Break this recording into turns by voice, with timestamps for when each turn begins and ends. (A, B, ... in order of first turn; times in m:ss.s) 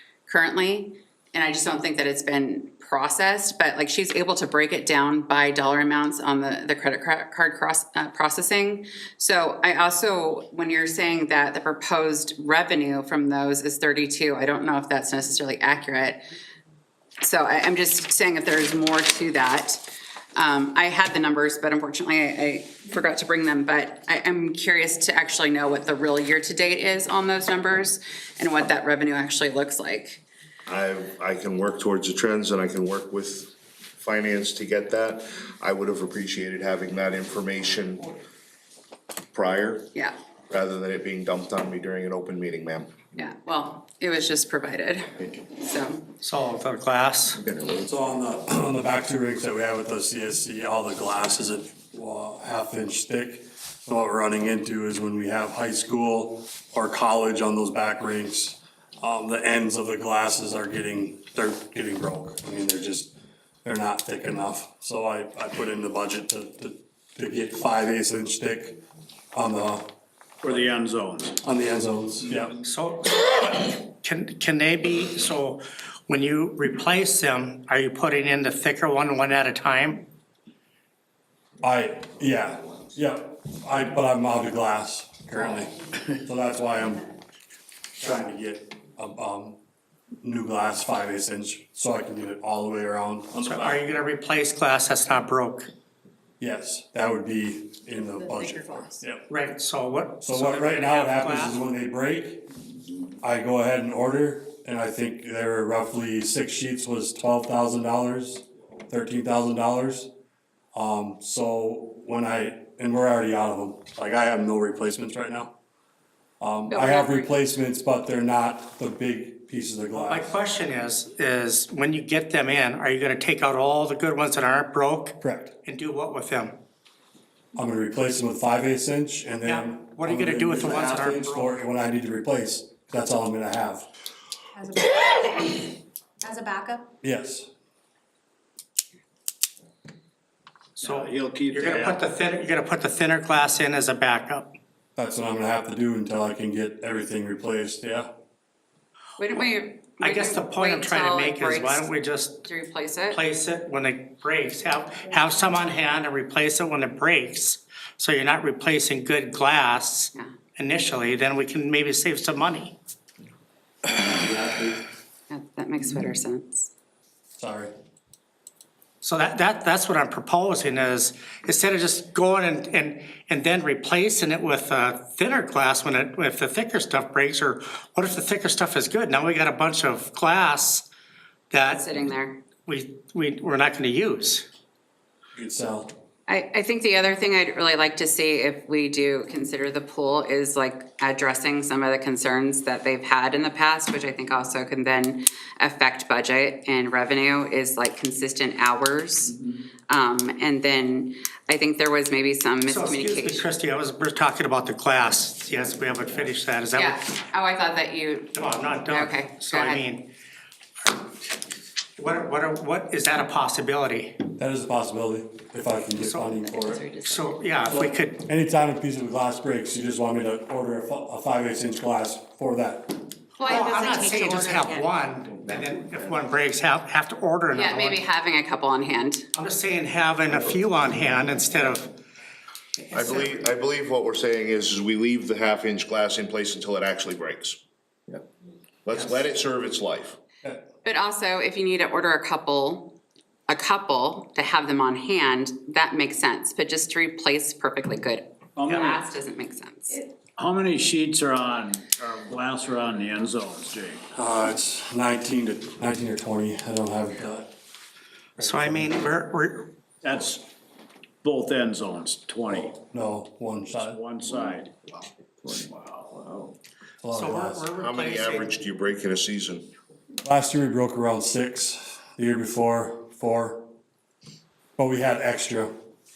0:00.3-0:16.2 A
0:17.2-0:19.8 A
0:20.4-0:30.2 A
0:30.7-0:38.1 B
0:39.3-0:39.9 B
0:40.5-0:43.0 B
0:43.2-0:46.1 A
0:46.2-0:47.4 C
0:47.7-1:03.1 D
1:03.6-1:08.8 D
1:09.3-1:09.9 D
1:10.4-1:11.4 E
1:11.4-1:12.5 D
1:12.6-1:20.0 C
1:21.6-1:27.1 D
1:28.0-1:29.6 D
1:30.2-1:33.8 D
1:33.4-1:35.7 C
1:36.4-1:39.3 D
1:38.4-1:38.9 F
1:39.3-1:41.6 C
1:40.2-1:42.4 D
1:43.2-1:50.1 D
1:50.7-1:55.5 D
1:56.4-2:00.3 D
1:56.7-1:57.3 A
1:59.9-2:06.5 C
2:05.2-2:05.5 D
2:07.6-2:13.9 D
2:09.4-2:11.5 C
2:14.6-2:15.7 F
2:16.2-2:16.8 F
2:17.0-2:17.5 D
2:20.8-2:24.5 C
2:20.8-2:22.0 E
2:25.0-2:28.1 D
2:29.2-2:31.9 A
2:30.0-2:32.4 C
2:32.4-2:33.2 A
2:33.1-2:42.8 C
2:43.8-2:44.8 D
2:45.3-2:46.7 A
2:47.4-2:47.7 D
2:49.0-3:00.9 C
3:01.5-3:01.8 C
3:01.6-3:02.4 A
3:02.6-3:04.4 C
3:05.3-3:05.9 D
3:06.3-3:23.4 A
3:22.7-3:27.0 C
3:26.7-3:29.8 A
3:28.4-3:30.1 C
3:32.0-3:34.2 C
3:34.4-3:36.9 D
3:36.0-3:36.3 C
3:36.6-3:37.1 A
3:37.0-3:38.2 C
3:37.7-3:43.0 D
3:43.4-3:48.0 C
3:43.4-3:44.8 F
3:44.3-3:44.5 A
3:47.5-3:49.3 A
3:49.3-3:51.9 C
3:52.9-3:57.6 B
3:58.8-4:00.2 B
4:00.8-4:10.0 A
4:08.6-4:09.0 E
4:10.4-4:14.0 E
4:14.1-4:17.5 D
4:18.4-4:18.9 D
4:18.4-4:19.7 C
4:20.0-4:20.4 E
4:21.2-4:22.8 E
4:22.9-4:24.0 D
4:23.8-4:26.5 E
4:27.0-4:27.7 D
4:27.1-4:28.5 C
4:27.8-4:29.7 B
4:30.2-4:33.6 D
4:34.8-4:35.7 D